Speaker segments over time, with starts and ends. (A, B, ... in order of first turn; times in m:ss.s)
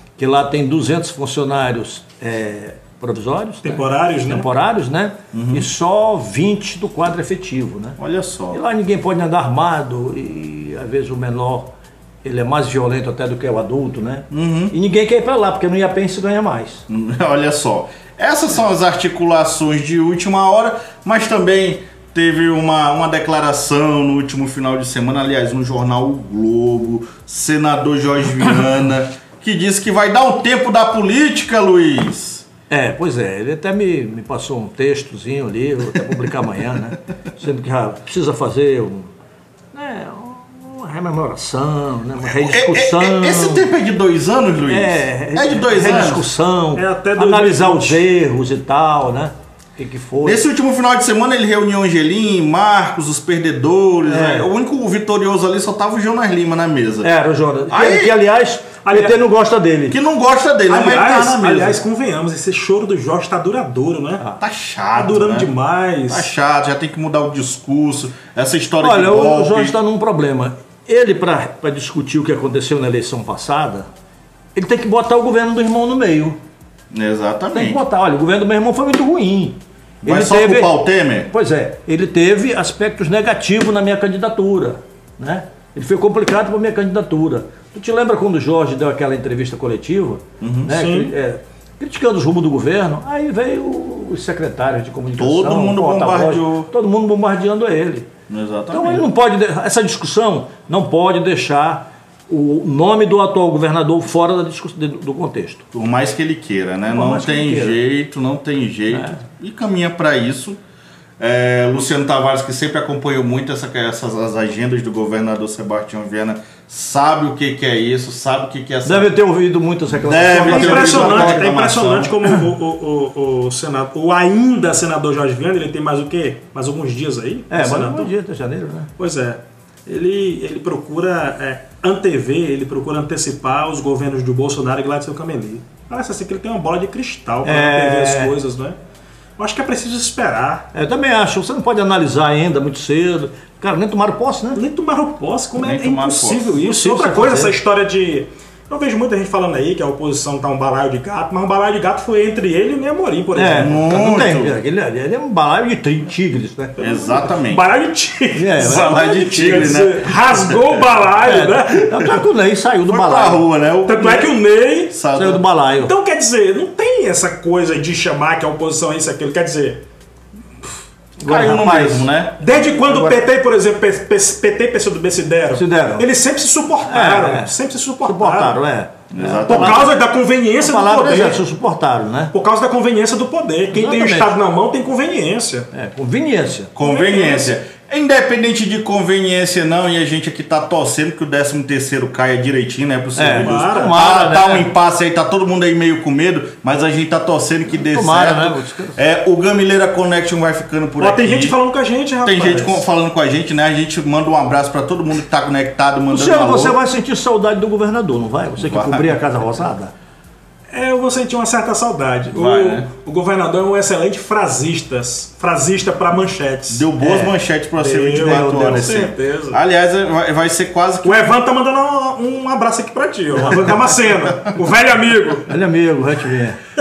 0:00.2-0:08.0 A
0:03.6-0:04.5 B
0:05.3-0:05.7 C
0:08.0-0:08.6 C
0:08.5-0:11.7 A
0:12.2-0:16.8 A
0:14.3-0:14.7 C
0:16.9-0:32.4 C
0:32.7-0:39.1 A
0:39.7-0:43.6 A
0:42.2-0:46.3 C
0:44.7-0:50.4 A
0:46.8-0:48.0 B
0:50.2-0:57.1 C
0:54.1-0:54.5 A
0:57.0-1:00.0 A
0:57.7-0:58.2 C
0:58.8-0:59.2 B
0:59.9-1:01.8 C
1:00.7-1:04.2 B
1:04.4-1:05.5 C
1:04.9-1:06.3 B
1:06.1-1:09.8 C
1:08.8-1:13.9 A
1:14.6-1:16.4 A
1:16.9-1:17.8 C
1:17.5-1:20.8 A
1:20.0-1:21.3 C
1:21.3-1:38.1 A
1:30.4-1:30.7 C
1:30.7-1:31.1 B
1:35.2-1:36.7 C
1:38.3-1:39.1 C
1:38.7-1:45.6 A
1:45.7-1:50.6 C
1:46.9-1:47.8 A
1:48.9-1:49.2 A
1:51.2-1:59.1 C
1:58.8-2:01.5 A
1:59.9-2:02.2 C
2:00.4-2:08.1 B
2:07.5-2:08.9 A
2:09.0-2:18.8 B
2:17.4-2:18.3 A
2:19.4-2:20.7 B
2:20.7-2:24.6 A
2:24.6-2:33.8 B
2:25.6-2:26.6 C
2:26.6-2:27.6 A
2:33.4-2:36.8 A
2:33.6-2:34.6 C
2:36.8-2:42.2 B
2:36.8-2:37.7 C
2:38.3-2:39.0 A
2:38.6-2:40.9 C
2:41.2-2:43.4 A
2:42.9-2:44.3 C
2:43.9-2:44.9 B
2:44.9-2:45.4 C
2:45.1-2:45.9 A
2:45.8-2:49.8 B
2:51.2-2:52.1 A
2:51.2-2:52.4 C
2:52.4-2:58.6 B
2:52.8-2:53.2 A
2:55.5-2:56.1 A
2:56.9-2:57.5 A
2:58.0-2:59.9 A
2:59.1-2:59.9 C
2:59.5-3:01.4 B
3:00.6-3:02.3 A
3:02.3-3:05.7 B
3:03.7-3:04.3 A
3:05.7-3:06.7 A
3:06.8-3:21.6 C
3:06.8-3:07.6 B
3:13.2-3:14.7 A
3:13.4-3:14.0 B
3:17.7-3:19.0 A
3:21.0-3:22.8 B
3:22.2-3:26.8 C
3:26.1-3:29.9 A
3:28.6-3:29.2 C
3:30.7-3:39.6 B
3:32.3-3:32.9 C
3:36.7-3:41.3 C
3:38.2-3:38.8 A
3:41.0-3:45.5 B
3:45.5-3:46.6 A